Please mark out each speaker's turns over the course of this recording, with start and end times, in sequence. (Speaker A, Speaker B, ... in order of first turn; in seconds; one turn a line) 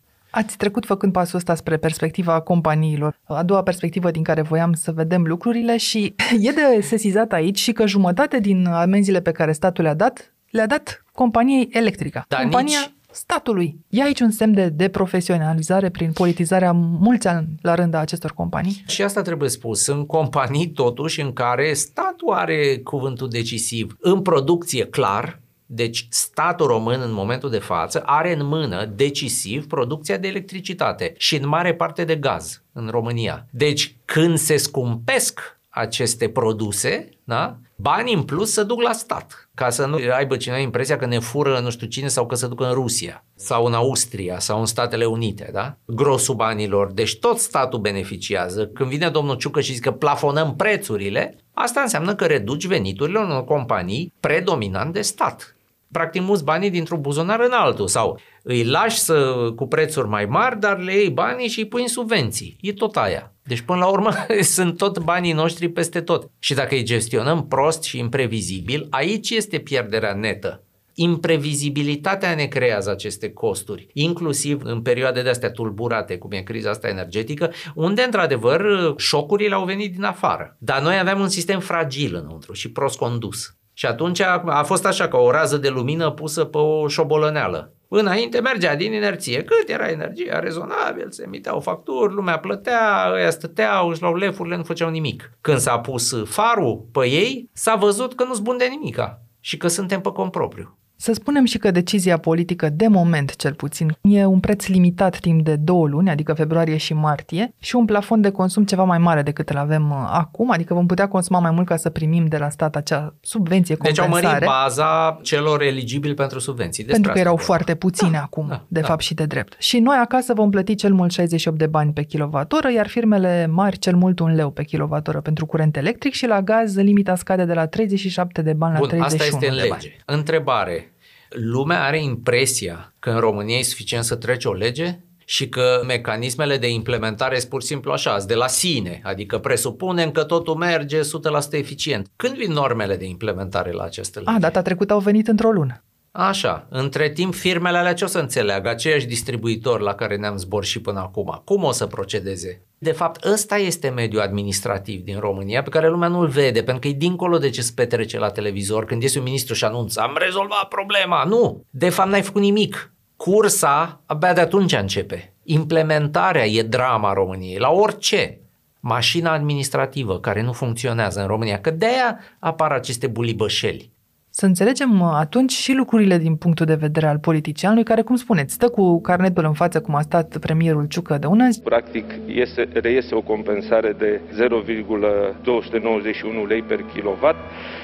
Speaker A: 0.3-18.8
Speaker B: 12.3-12.9
Speaker B: 18.9-100.7
Speaker A: 101.0-114.5
Speaker B: 113.8-117.7
Speaker A: 116.9-129.8
Speaker B: 118.5-118.9
Speaker B: 128.8-144.5
Speaker A: 144.3-145.8
Speaker B: 146.1-173.9
Speaker A: 174.3-181.6
Speaker C: 181.6-187.4